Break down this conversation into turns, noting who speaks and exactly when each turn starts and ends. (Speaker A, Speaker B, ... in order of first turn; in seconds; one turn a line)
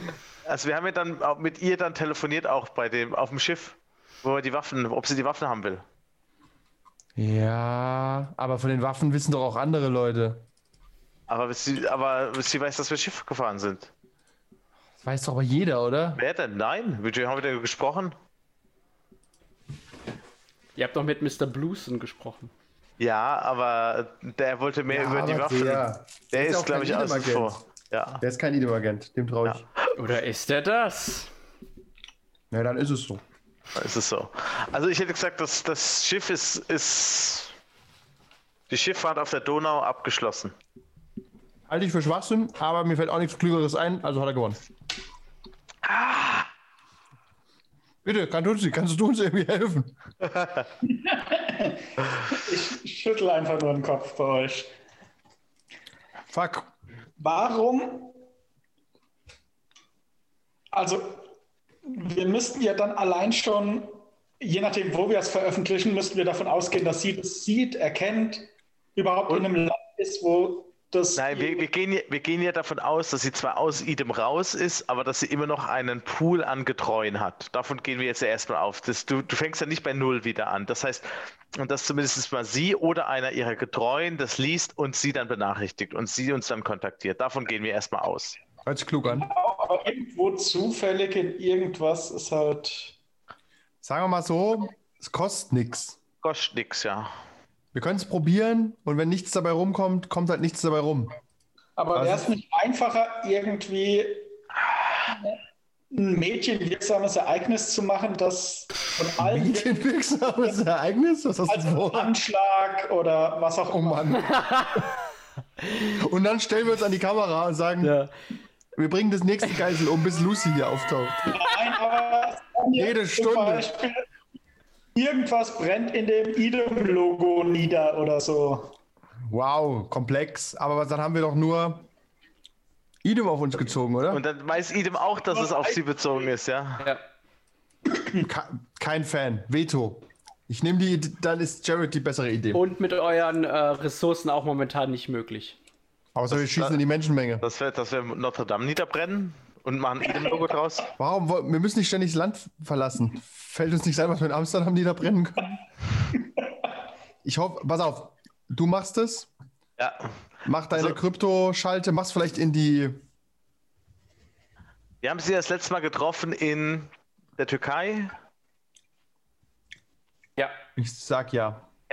Speaker A: 0.4-5.8
Speaker B: 7.2-10.5
Speaker A: 11.3-13.9
Speaker B: 15.0-16.2
Speaker A: 16.2-18.1
Speaker C: 20.8-22.5
Speaker A: 23.0-28.2
Speaker B: 24.9-27.6
Speaker B: 28.2-29.6
Speaker C: 30.0-31.3
Speaker B: 32.5-33.2
Speaker A: 33.7-37.5
Speaker A: 38.7-40.5
Speaker B: 41.7-44.6
Speaker A: 45.9-46.5
Speaker B: 48.0-50.0
Speaker A: 50.2-50.7
Speaker D: 50.8-54.7
Speaker B: 56.3-56.7
Speaker D: 57.2-58.2
Speaker D: 60.7-61.3
Speaker D: 61.8-71.7
Speaker A: 71.2-88.4
Speaker B: 88.7-89.3
Speaker D: 89.0-93.0
Speaker B: 93.8-96.0
Speaker A: 96.2-97.1
Speaker B: 97.7-101.2
Speaker D: 101.8-104.3
Speaker B: 102.0-102.3
Speaker D: 105.9-109.9
Speaker B: 109.2-112.2
Speaker D: 111.5-114.2
Speaker B: 113.7-114.3
Speaker C: 114.3-114.9
Speaker B: 116.0-117.9
Speaker C: 117.8-118.1
Speaker B: 118.8-121.3
Speaker D: 121.2-124.0
Speaker B: 122.8-123.7
Speaker D: 125.0-128.7
Speaker B: 129.3-131.9
Speaker B: 133.0-134.2
Speaker A: 134.1-136.9
Speaker D: 137.9-138.2
Speaker B: 138.2-142.6
Speaker C: 142.5-145.6
Speaker B: 146.2-147.4
Speaker A: 146.3-146.8
Speaker A: 147.4-150.9
Speaker B: 151.0-155.6
Speaker B: 157.2-159.3
Speaker A: 159.8-160.1
Speaker B: 160.4-163.0
Speaker A: 165.0-168.2
Speaker B: 170.8-171.7